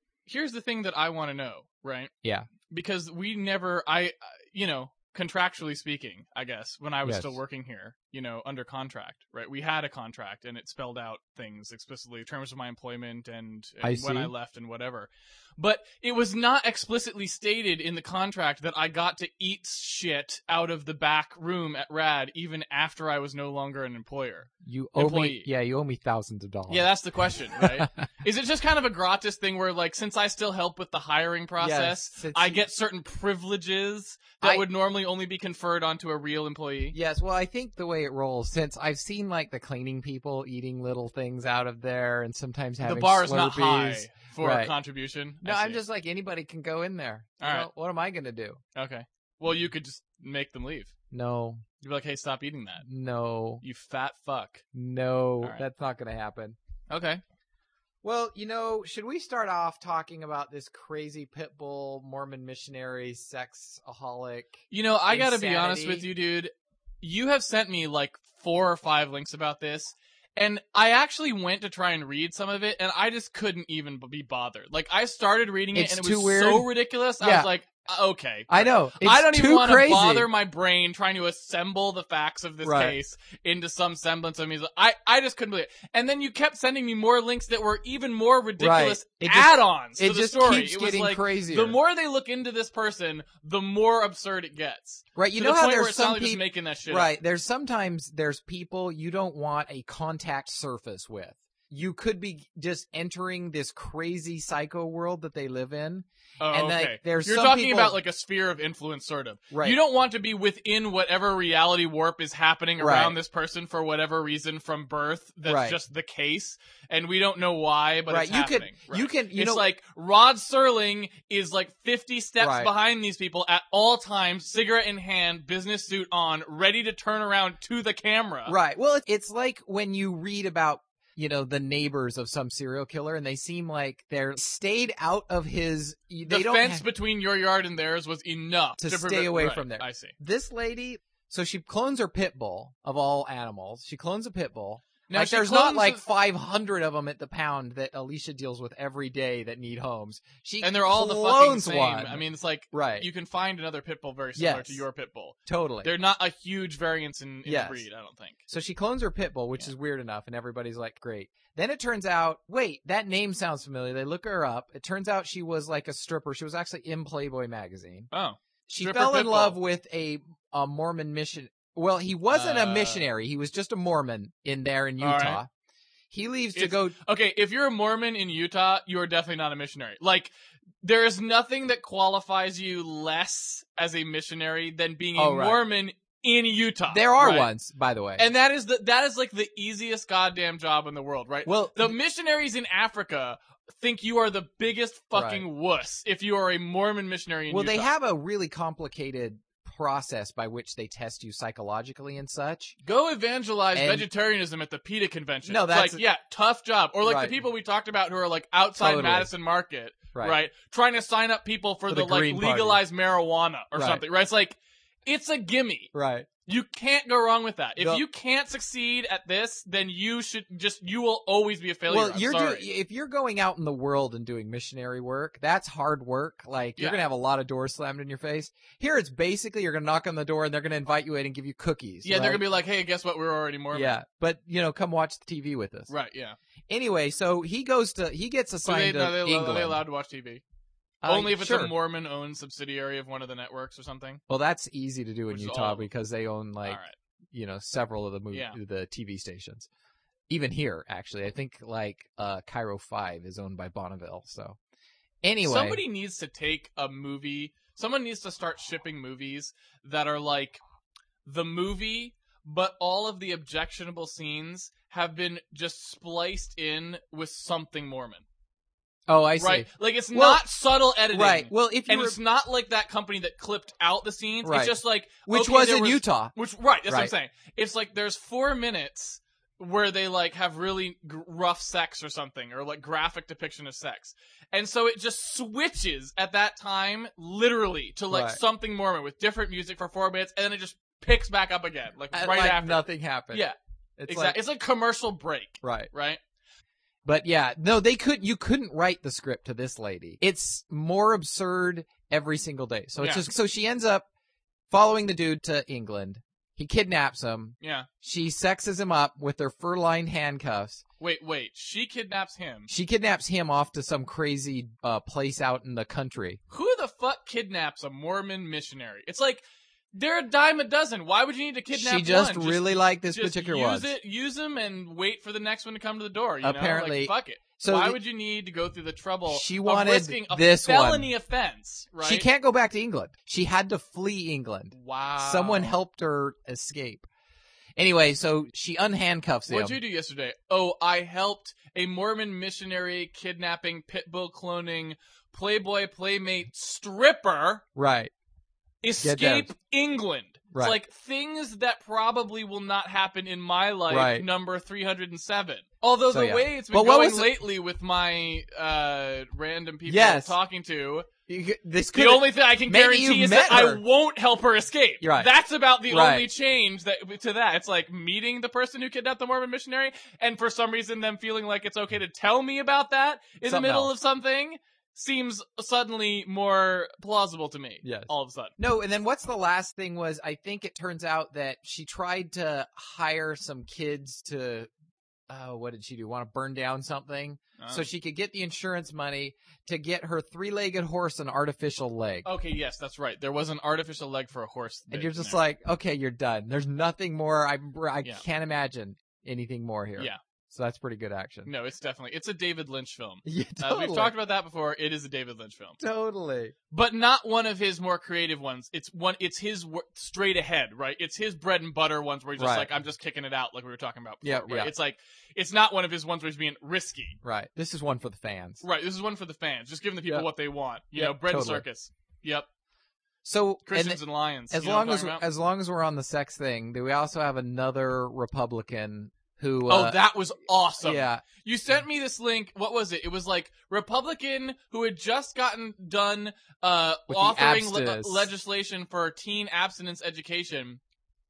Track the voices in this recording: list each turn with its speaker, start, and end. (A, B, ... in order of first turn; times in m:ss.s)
0:00.2-0:02.1 A
0:02.2-0:02.5 B
0:02.7-0:25.5 A
0:07.0-0:07.4 B
0:13.8-0:14.3 B
0:24.6-0:26.9 B
0:26.7-0:37.0 A
0:27.6-0:28.1 B
0:31.6-0:32.6 B
0:36.9-0:44.7 B
0:42.8-0:45.8 A
0:45.4-0:48.6 B
0:47.4-0:47.7 A
0:48.7-0:50.9 A
0:51.1-0:51.6 B
0:51.8-0:52.8 A
0:52.8-0:53.6 B
0:53.6-0:54.6 A
0:54.7-0:56.6 B
0:56.9-0:57.2 A
0:58.0-1:06.1 B
1:04.7-1:37.1 A
1:15.7-1:16.7 B
1:17.2-1:17.5 B
1:18.5-1:20.3 B
1:22.6-1:23.0 B
1:28.6-1:31.8 B
1:35.2-1:48.0 B
1:46.4-2:08.6 A
1:49.5-1:49.8 B
1:52.8-1:53.2 B
1:55.4-1:55.8 B
1:58.1-1:59.6 B
2:02.4-2:02.7 B
2:08.4-2:16.8 B
2:16.2-2:20.1 A
2:18.8-2:33.1 B
2:25.1-2:26.0 A
2:30.6-2:38.4 A
2:34.4-2:34.8 B
2:35.4-2:35.9 B
2:37.4-2:37.8 B
2:38.5-2:48.1 B
2:48.1-2:49.6 A
2:48.7-2:55.5 B
2:52.3-2:53.0 A
2:55.0-2:55.4 A
2:56.1-2:57.0 B
2:56.5-3:07.5 A
3:05.2-3:05.6 B
3:06.9-3:08.2 B
3:08.2-3:17.9 A
3:11.4-3:12.0 B
3:15.1-3:15.4 B
3:17.5-3:22.8 B
3:22.8-3:35.9 A
3:23.7-3:24.0 B
3:25.5-3:26.0 B
3:27.0-3:27.3 B
3:28.8-3:29.3 B
3:30.1-3:30.4 B
3:31.9-3:32.8 B
3:33.7-3:34.0 B
3:35.9-3:36.3 B
3:36.4-3:42.6 A
3:37.8-3:38.0 B
3:41.9-3:52.4 B
3:52.0-3:53.9 A
3:53.7-3:55.9 B
3:55.9-3:56.4 A
3:56.7-3:59.8 B
3:58.6-4:00.4 A
4:01.0-4:01.7 B
4:01.0-4:04.2 A
4:04.3-4:06.8 B
4:05.3-4:05.9 A
4:06.6-4:06.9 A
4:07.3-4:09.7 B
4:08.3-4:08.6 A
4:10.3-4:14.6 B
4:15.2-4:15.8 B
4:15.4-4:20.6 A
4:21.2-4:28.2 A
4:29.1-4:30.4 B
4:29.4-4:53.6 A
4:31.1-4:32.2 B
4:34.4-4:36.3 B
4:36.9-4:37.1 B
4:48.1-4:48.4 B
4:52.1-4:54.4 B
4:54.1-4:56.2 A
4:55.6-4:55.9 B
4:57.0-5:04.0 B
5:03.0-5:03.2 A
5:04.7-5:10.8 B
5:07.6-5:07.9 A
5:11.0-5:12.7 A
5:12.7-5:16.4 B
5:16.5-5:19.4 A
5:19.9-5:32.2 A
5:21.7-5:23.9 B
5:26.4-5:28.0 B
5:29.3-5:31.1 B
5:32.0-5:37.0 B
5:34.7-5:35.7 A
5:37.8-5:39.8 B
5:39.5-5:47.6 A
5:47.8-5:48.1 B
5:48.8-6:01.1 A
5:49.0-5:49.5 B
5:50.5-5:50.8 B
5:53.9-5:54.2 B
5:56.1-5:57.3 B
5:59.9-6:00.3 B
6:01.3-6:03.8 B
6:01.9-6:18.5 A
6:05.0-6:05.3 B
6:05.9-6:06.3 B
6:13.4-6:13.9 B
6:17.8-6:24.7 B
6:25.3-6:32.3 B
6:27.6-6:27.8 A
6:32.2-6:35.4 A
6:34.9-6:41.5 B
6:41.4-6:45.8 A
6:43.2-6:44.1 B
6:45.8-6:46.5 B
6:46.7-6:57.2 A
6:52.4-6:52.7 B
6:54.2-6:54.7 B
6:57.2-6:58.6 B
6:58.6-7:02.5 A
7:00.9-7:01.6 B
7:03.2-7:10.0 B
7:03.6-7:05.2 A
7:09.7-7:20.8 A
7:10.8-7:11.2 B
7:17.1-7:18.3 B